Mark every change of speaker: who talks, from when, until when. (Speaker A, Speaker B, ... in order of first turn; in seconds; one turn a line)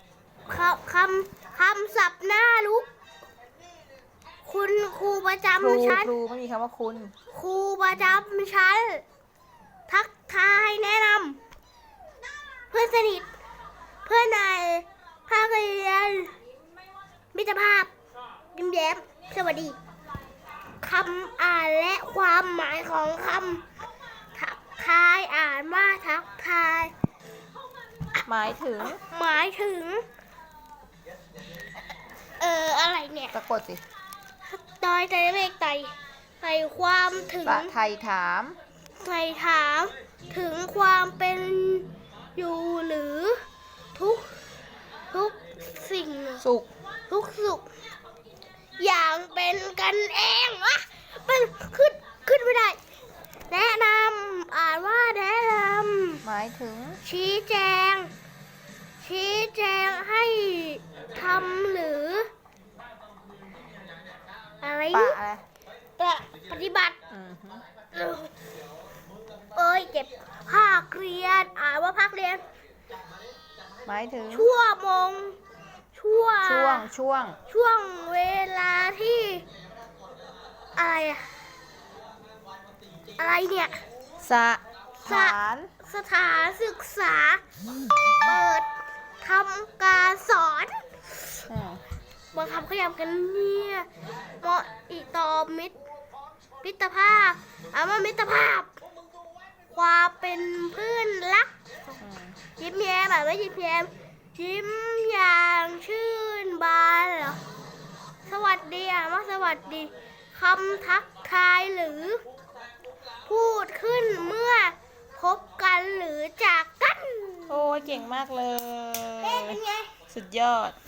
Speaker A: 0.5-2.9
Speaker A: 4.5-6.1
Speaker B: 5.6-7.1
Speaker A: 7.3-9.0
Speaker A: 9.9-11.4
Speaker A: 12.7-13.3
Speaker A: 14.1-16.4
Speaker A: 17.3-17.9
Speaker A: 18.5-19.8
Speaker A: 20.8-23.7
Speaker A: 24.4-26.9
Speaker B: 28.2-29.0
Speaker A: 28.8-30.1
Speaker A: 32.4-33.4
Speaker B: 33.3-33.8
Speaker A: 34.5-37.7
Speaker B: 37.4-38.6
Speaker A: 39.0-43.4
Speaker A: 44.0-44.4
Speaker A: 45.1-46.5
Speaker B: 46.4-46.7
Speaker A: 47.1-47.7
Speaker A: 48.8-52.8
Speaker A: 53.5-56.2
Speaker B: 56.2-57.0
Speaker A: 57.0-58.1
Speaker A: 59.0-62.3
Speaker A: 64.6-65.2
Speaker B: 64.9-65.4
Speaker A: 66.0-67.0
Speaker B: 67.1-67.7
Speaker A: 67.9-68.3
Speaker A: 69.5-72.4
Speaker B: 73.9-74.5
Speaker A: 74.3-75.4
Speaker A: 75.9-76.9
Speaker B: 76.4-77.4
Speaker A: 77.5-79.5
Speaker A: 80.8-81.3
Speaker A: 83.2-83.8
Speaker B: 84.2-85.7
Speaker A: 85.0-87.4
Speaker A: 88.2-88.7
Speaker A: 89.2-91.4
Speaker B: 91.5-91.8
Speaker A: 92.3-93.9
Speaker A: 94.4-95.8
Speaker A: 96.6-98.7
Speaker A: 99.7-101.5
Speaker B: 102.0-102.4
Speaker A: 102.6-107.4
Speaker A: 108.3-112.2
Speaker A: 113.3-118.0
Speaker B: 117.5-120.8
Speaker A: 119.2-119.9